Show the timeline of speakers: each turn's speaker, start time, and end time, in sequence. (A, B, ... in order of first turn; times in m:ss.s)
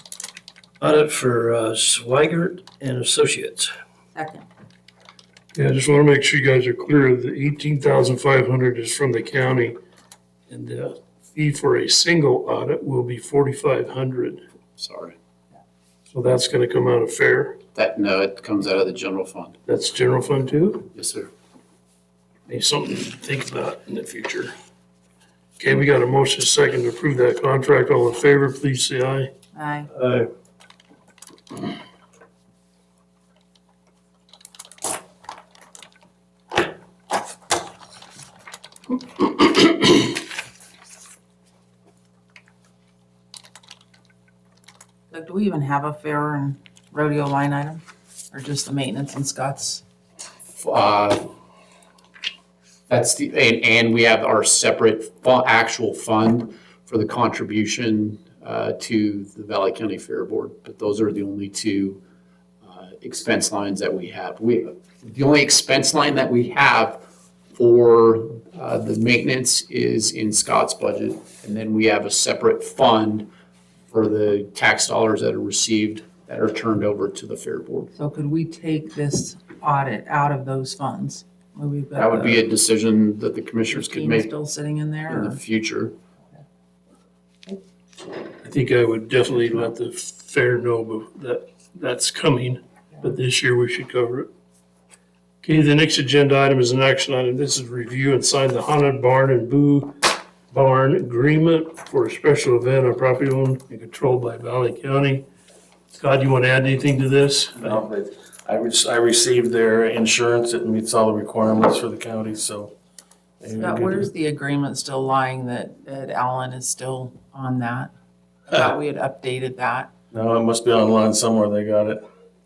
0:00.8-0:03.7 A
0:04.1-0:04.4 B
0:05.5-0:09.8 C
0:10.5-0:14.4 C
0:14.8-0:15.2 D
0:16.1-0:17.6 C
0:17.7-0:19.6 D
0:19.7-0:20.9 C
0:20.9-0:21.3 D
0:22.5-0:24.5 C
0:25.6-0:29.3 C
0:29.5-0:29.9 B
0:29.9-0:30.3 A
0:45.1-0:49.8 B
0:50.6-0:51.2 D
0:52.9-1:02.0 D
1:02.6-1:07.0 D
1:07.5-1:13.3 D
1:13.9-1:17.9 D
1:17.9-1:22.4 B
1:22.0-1:24.3 D
1:23.7-1:25.4 B
1:25.1-1:25.9 D
1:28.4-1:34.3 C
1:35.4-1:45.2 C
1:45.9-1:47.8 C
1:47.6-1:52.7 E
1:53.4-1:54.1 E
1:53.6-1:57.9 B
1:58.5-1:59.9 B
2:00.1-2:02.0 E